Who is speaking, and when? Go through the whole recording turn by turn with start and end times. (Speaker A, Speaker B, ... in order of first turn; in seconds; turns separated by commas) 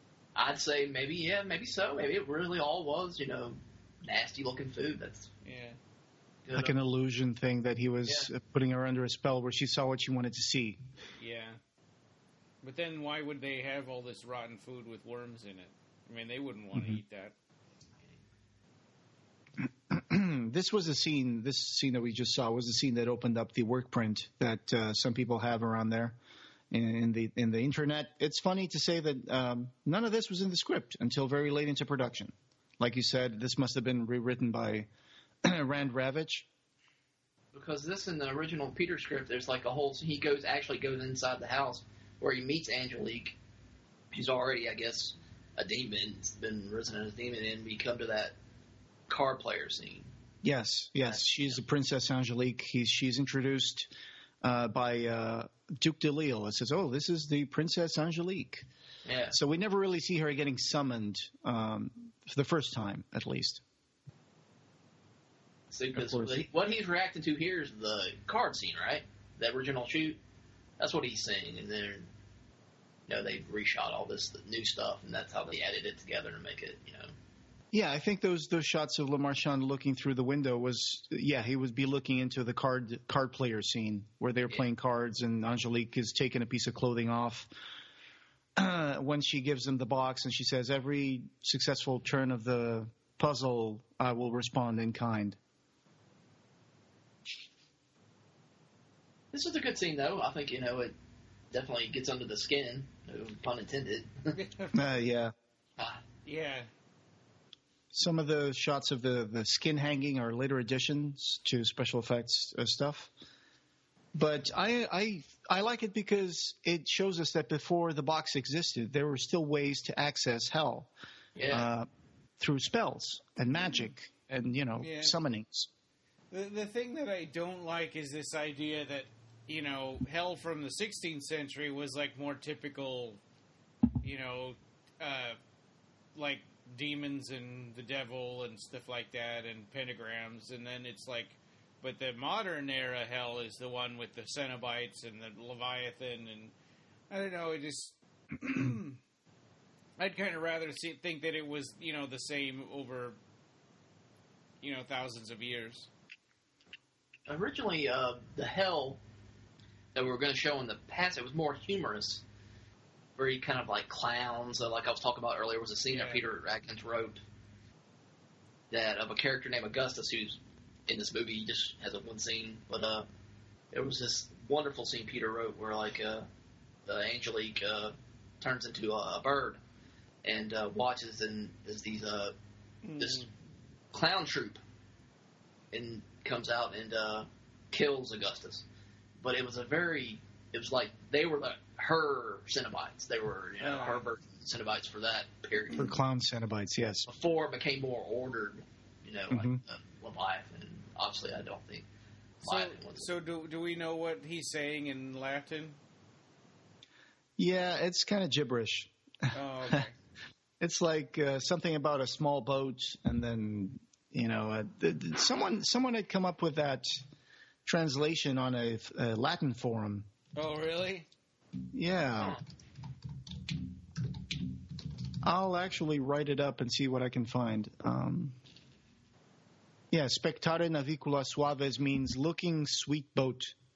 Speaker A: 0.3-5.3, Speaker B: 5.4-5.8, Speaker A: 6.5-6.8, Speaker C: 6.5-10.8, Speaker B: 11.2-11.6, Speaker B: 12.6-17.3, Speaker C: 16.7-17.0, Speaker C: 19.9-26.2, Speaker C: 26.7-34.9, Speaker C: 35.4-36.5, Speaker A: 37.5-43.4, Speaker A: 44.1-48.4, Speaker A: 49.1-50.1, Speaker C: 50.4-53.9, Speaker A: 51.0-51.5, Speaker C: 54.4-58.7, Speaker A: 59.0-59.4, Speaker C: 59.3-63.6, Speaker A: 65.7-70.2, Speaker C: 66.0-66.4, Speaker A: 70.8-72.1, Speaker A: 73.1-77.1, Speaker C: 77.7-87.5, Speaker C: 88.6-95.4, Speaker A: 99.3-100.9, Speaker A: 101.5-104.4, Speaker B: 104.3-104.8, Speaker C: 104.7-105.3, Speaker B: 106.2-106.7, Speaker C: 107.9-113.1, Speaker C: 114.2-120.9, Speaker A: 121.4-121.7, Speaker C: 121.5-121.9, Speaker C: 122.4-125.7, Speaker B: 124.8-125.2, Speaker B: 126.3-133.2, Speaker B: 134.0-135.4, Speaker B: 136.2-146.5, Speaker B: 147.1-149.0, Speaker B: 150.0-153.2, Speaker B: 154.6-155.9, Speaker A: 157.3-159.0, Speaker A: 159.9-162.2, Speaker A: 163.2-167.2, Speaker B: 165.9-166.2, Speaker A: 168.7-173.1, Speaker A: 173.7-176.3, Speaker A: 176.9-179.6, Speaker A: 180.2-182.3, Speaker B: 182.8-183.3, Speaker A: 183.0-183.3, Speaker A: 183.9-184.6, Speaker A: 185.7-188.7, Speaker A: 189.2-195.9, Speaker B: 193.6-194.1, Speaker C: 195.8-197.1, Speaker A: 197.1-201.9, Speaker C: 199.3-199.6, Speaker A: 202.4-203.1, Speaker B: 202.4-205.8, Speaker C: 207.4-209.8, Speaker B: 209.3-209.9, Speaker C: 210.6-216.9, Speaker C: 217.7-220.1, Speaker B: 220.3-221.1, Speaker C: 221.7-222.4, Speaker C: 225.2-228.4, Speaker C: 229.9-233.5